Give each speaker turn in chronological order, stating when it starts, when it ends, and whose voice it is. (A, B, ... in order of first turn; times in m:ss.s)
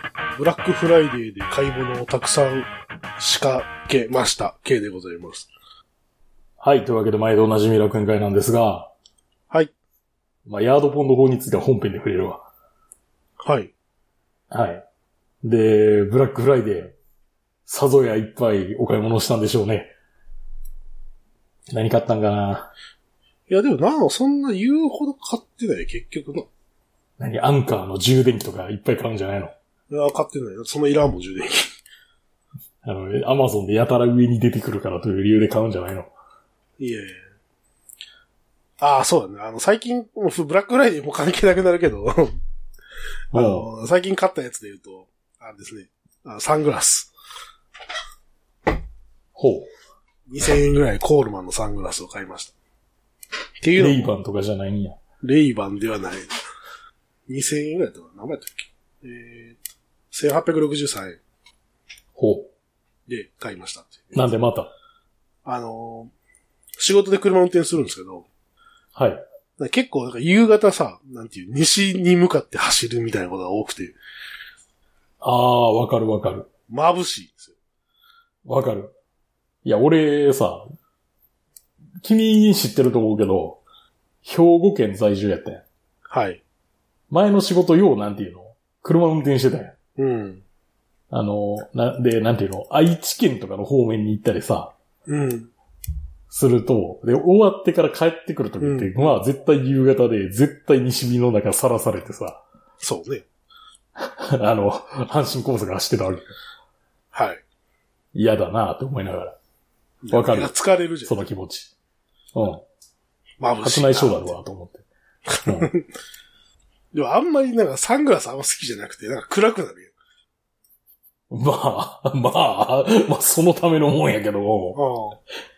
0:00.4-0:05.5 A
0:06.6-0:08.9 B
0:10.4-0:12.4 B
0:13.4-0:13.7 A
0:14.5-0:14.8 B
0:15.4-0:16.9 B
0:17.7-0:19.9 B
0:21.7-0:22.7 B
0:23.5-0:26.5 A
0:27.2-0:29.5 B
0:29.9-0:31.7 A
0:32.8-0:36.1 B
0:36.8-0:37.2 A
0:38.8-0:42.4 A
0:43.3-0:47.1 A
0:43.3-0:43.7 B
0:49.4-0:49.7 B
0:50.3-0:52.5 A
0:53.6-0:54.1 A
0:53.8-0:55.0 B
0:55.2-0:56.3 A
0:57.3-0:59.6 A
1:00.1-1:01.2 A
1:02.2-1:02.5 B
1:03.1-1:04.3 A
1:04.1-1:04.7 B
1:05.4-1:06.1 A
1:06.8-1:08.3 A
1:08.9-1:09.2 B
1:09.6-1:14.0 A
1:15.2-1:16.5 B
1:16.7-1:17.5 A
1:18.4-1:18.9 B
1:19.6-1:20.7 B
1:22.0-1:23.6 B
1:24.2-1:25.6 B
1:26.1-1:26.4 A
1:27.1-1:29.7 B
1:30.0-1:30.4 A
1:31.1-1:34.7 B
1:35.1-1:35.5 A
1:36.3-1:42.4 B
1:38.6-1:39.2 A
1:42.8-1:43.2 A
1:44.0-1:46.3 B
1:47.1-1:47.4 A
1:48.1-1:49.4 B
1:50.0-1:51.2 A
1:50.1-1:50.5 B
1:51.0-1:51.7 B
1:52.3-1:52.6 B
1:53.4-1:54.3 A
1:53.6-1:54.8 B
1:55.3-1:55.9 A
1:55.4-1:55.7 B
1:56.9-1:59.9 A
2:01.3-2:04.8 B
2:04.7-2:05.2 A